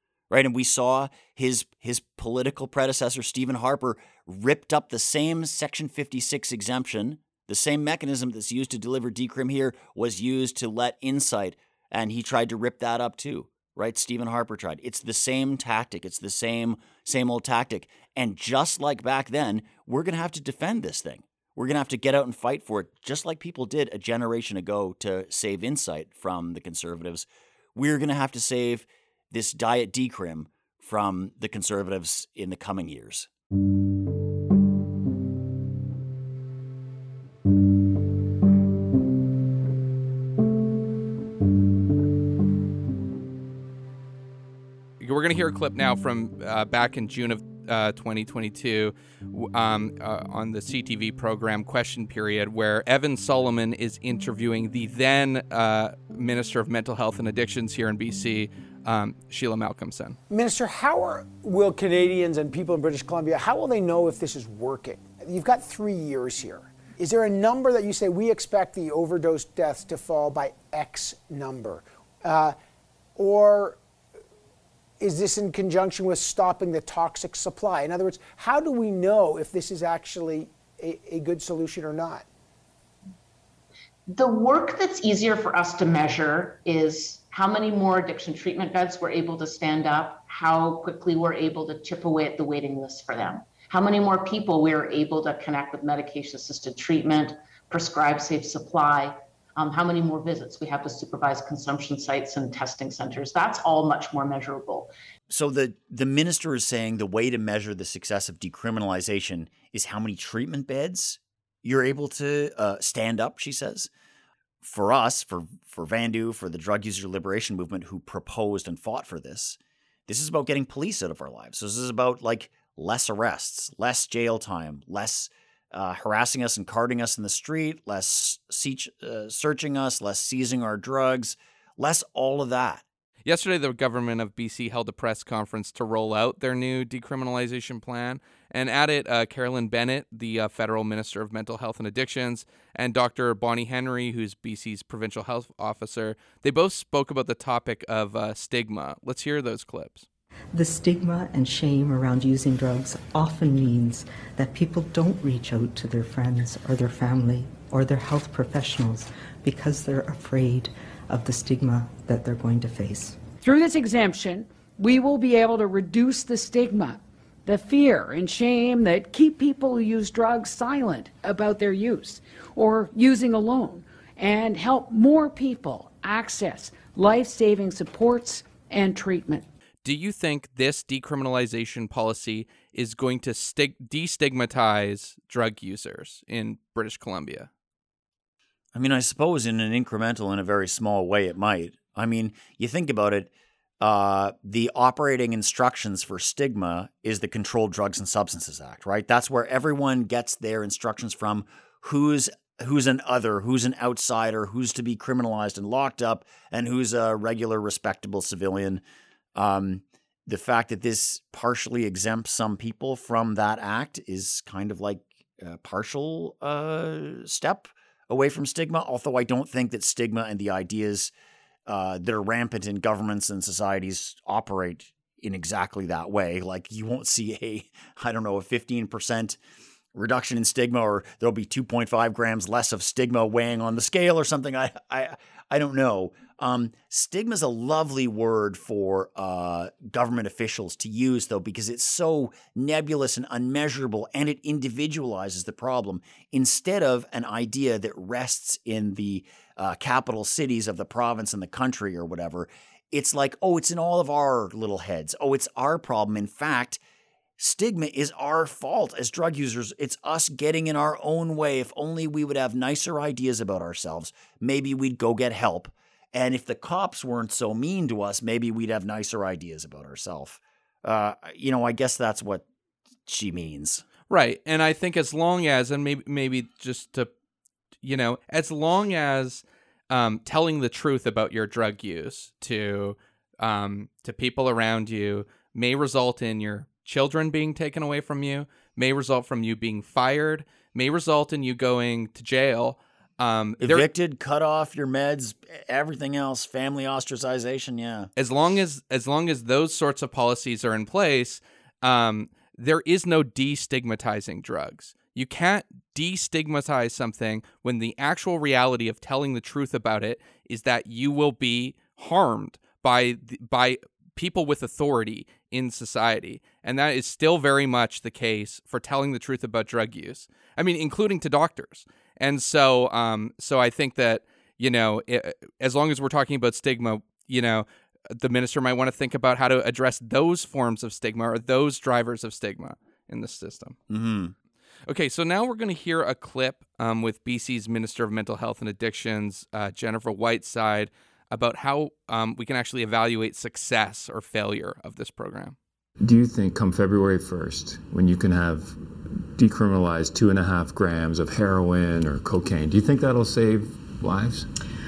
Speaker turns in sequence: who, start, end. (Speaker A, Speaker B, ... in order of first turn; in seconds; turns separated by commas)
Speaker A: 0.3-33.3, Speaker B: 45.0-60.2, Speaker C: 60.3-72.5, Speaker C: 73.2-73.8, Speaker C: 75.0-82.2, Speaker D: 84.1-104.9, Speaker A: 105.3-113.9, Speaker A: 114.6-132.8, Speaker B: 133.2-150.1, Speaker E: 150.5-163.2, Speaker F: 163.4-179.5, Speaker B: 179.8-187.5, Speaker A: 188.7-208.8, Speaker A: 209.3-221.1, Speaker A: 221.7-229.4, Speaker A: 229.9-256.8, Speaker A: 257.4-272.4, Speaker A: 273.1-273.8, Speaker B: 274.1-277.1, Speaker B: 277.8-293.9, Speaker A: 293.6-298.1, Speaker B: 298.2-333.8, Speaker A: 333.9-334.3, Speaker B: 334.9-345.6, Speaker G: 346.0-348.8, Speaker G: 349.3-354.5